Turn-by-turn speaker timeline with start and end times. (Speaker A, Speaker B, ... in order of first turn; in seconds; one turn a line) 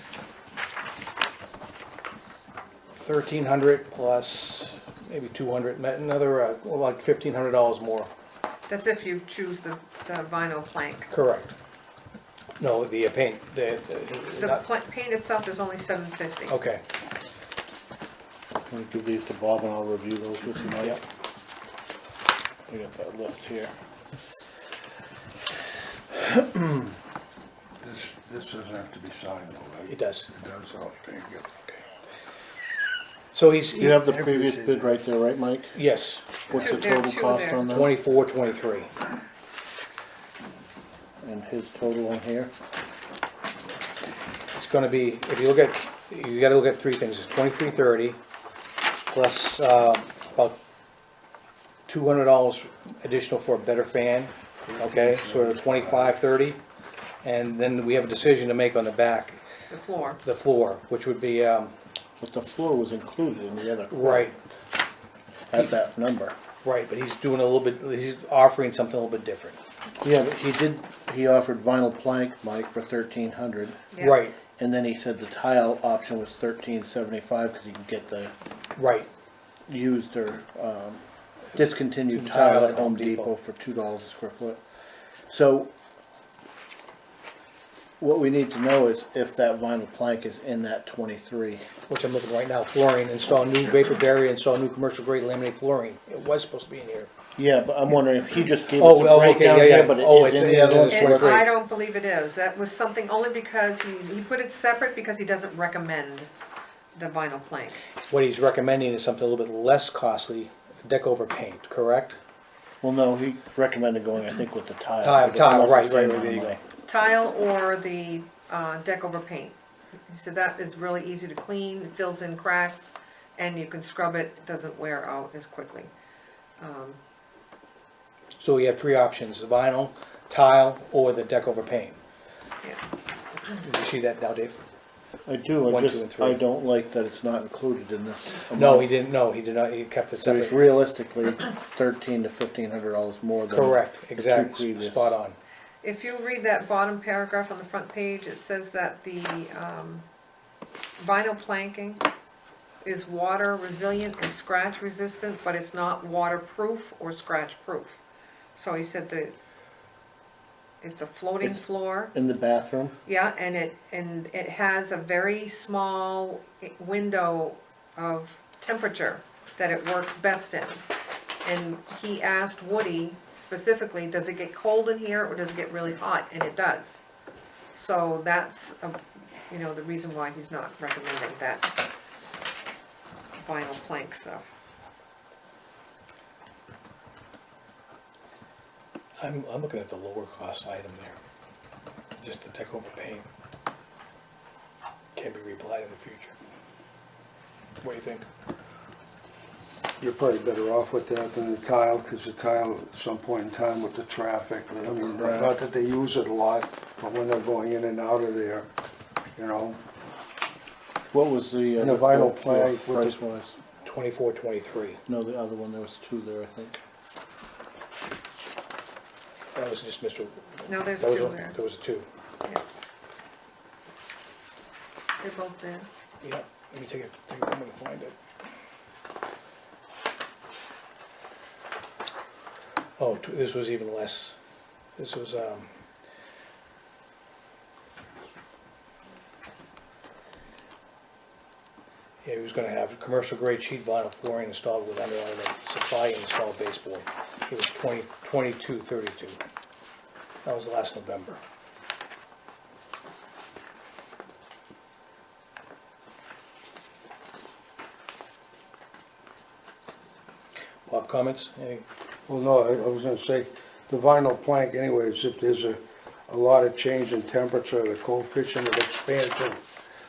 Speaker A: 2.9-8.1
Speaker B: 8.7-11.1
Speaker A: 11.1-11.5
Speaker A: 12.6-14.6
Speaker B: 14.4-16.6
Speaker A: 16.5-16.8
Speaker C: 18.7-21.0
Speaker C: 22.7-23.7
Speaker C: 26.1-26.5
Speaker D: 27.8-31.5
Speaker A: 29.9-30.3
Speaker A: 33.3-34.0
Speaker C: 33.8-35.8
Speaker D: 33.8-34.9
Speaker A: 35.7-36.2
Speaker C: 36.5-37.9
Speaker B: 36.5-37.7
Speaker A: 37.6-38.9
Speaker C: 41.2-42.5
Speaker A: 44.5-48.2
Speaker A: 49.1-50.5
Speaker A: 51.9-56.6
Speaker D: 54.7-56.2
Speaker A: 57.2-59.4
Speaker B: 59.7-60.2
Speaker A: 60.2-61.7
Speaker C: 62.2-64.3
Speaker A: 63.9-64.3
Speaker C: 65.5-66.3
Speaker A: 66.6-69.6
Speaker C: 70.0-73.8
Speaker B: 73.9-74.2
Speaker A: 74.0-74.4
Speaker C: 74.6-78.3
Speaker A: 78.8-79.1
Speaker C: 79.7-84.6
Speaker A: 82.1-83.3
Speaker C: 85.3-85.7
Speaker C: 88.0-91.7
Speaker A: 91.9-97.1
Speaker C: 97.3-101.5
Speaker A: 98.8-101.5
Speaker B: 100.9-106.3
Speaker B: 106.9-107.8
Speaker A: 108.1-112.2
Speaker C: 112.8-116.6
Speaker A: 115.0-116.6
Speaker B: 116.9-119.6
Speaker B: 120.1-125.9
Speaker B: 126.6-127.0
Speaker A: 128.4-132.0
Speaker A: 133.5-134.6
Speaker C: 135.2-138.9
Speaker A: 135.7-136.4
Speaker A: 138.5-140.6
Speaker C: 140.2-145.1
Speaker A: 143.5-145.3
Speaker B: 145.8-150.0
Speaker B: 151.0-152.0
Speaker B: 152.8-158.0
Speaker B: 158.6-159.3
Speaker B: 160.8-162.1
Speaker C: 162.1-162.9
Speaker B: 163.1-170.8
Speaker B: 171.4-177.0
Speaker B: 177.7-181.7
Speaker B: 183.4-184.4
Speaker A: 189.2-191.2
Speaker A: 192.2-193.3
Speaker A: 195.1-196.3
Speaker A: 197.8-198.3
Speaker D: 200.0-208.7
Speaker C: 205.1-205.5
Speaker D: 209.4-209.8
Speaker C: 211.1-213.6
Speaker D: 211.8-213.2
Speaker A: 213.8-215.0
Speaker C: 215.1-216.8
Speaker A: 219.5-222.1
Speaker B: 220.7-221.6
Speaker B: 225.2-225.9
Speaker A: 226.2-228.1
Speaker A: 233.0-234.3
Speaker A: 235.0-235.7
Speaker A: 242.2-249.4
Speaker A: 250.4-251.4
Speaker A: 260.9-261.8
Speaker D: 262.3-269.6